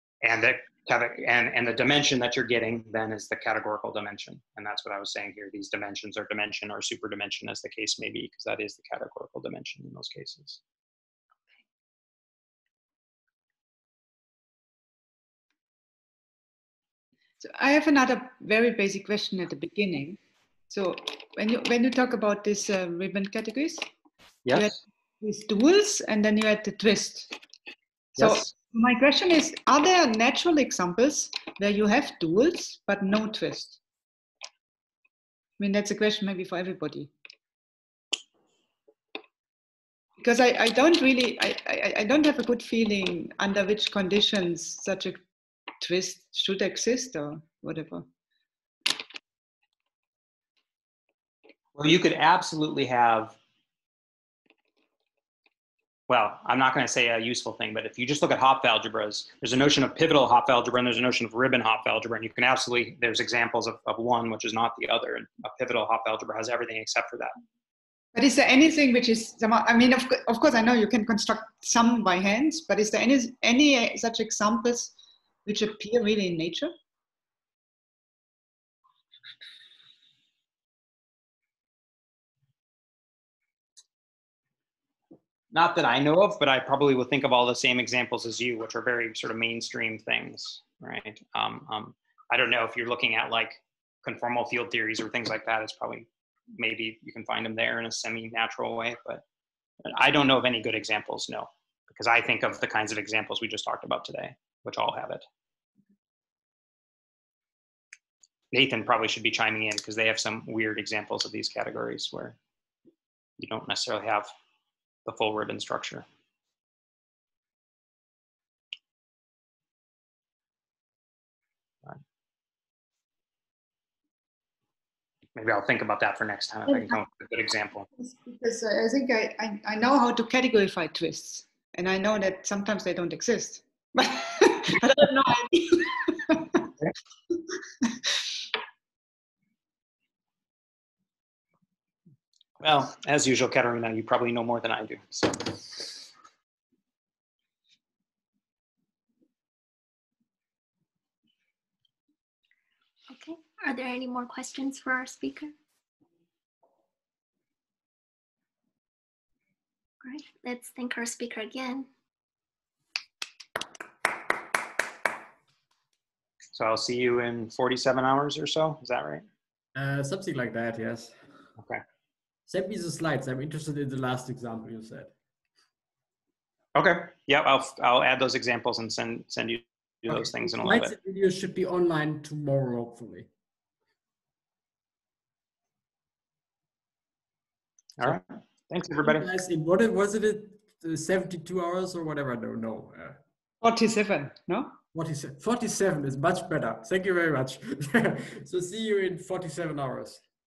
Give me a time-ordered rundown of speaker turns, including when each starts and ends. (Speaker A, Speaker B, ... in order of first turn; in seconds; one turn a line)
Speaker A: 0.2-10.6
Speaker B: 17.4-20.2
Speaker B: 20.7-23.8
Speaker A: 24.4-24.8
Speaker B: 24.5-27.3
Speaker A: 28.1-28.5
Speaker B: 28.2-33.8
Speaker B: 35.6-37.1
Speaker B: 40.2-45.2
Speaker B: 45.8-48.0
Speaker A: 51.8-53.4
Speaker A: 56.1-67.3
Speaker B: 68.1-74.9
Speaker B: 75.5-76.7
Speaker A: 85.5-99.2
Speaker A: 99.8-105.2
Speaker A: 108.5-112.3
Speaker A: 113.4-114.3
Speaker A: 115.0-116.0
Speaker A: 125.3-127.9
Speaker B: 128.0-136.7
Speaker B: 137.8-138.2
Speaker A: 142.6-146.0
Speaker C: 153.1-155.5
Speaker C: 160.0-161.9
Speaker A: 166.5-169.2
Speaker D: 169.8-171.4
Speaker D: 172.5-175.1
Speaker A: 176.7-180.9
Speaker D: 180.3-183.3
Speaker A: 188.0-189.3
Speaker D: 189.0-193.2
Speaker B: 193.6-194.8
Speaker D: 194.9-200.2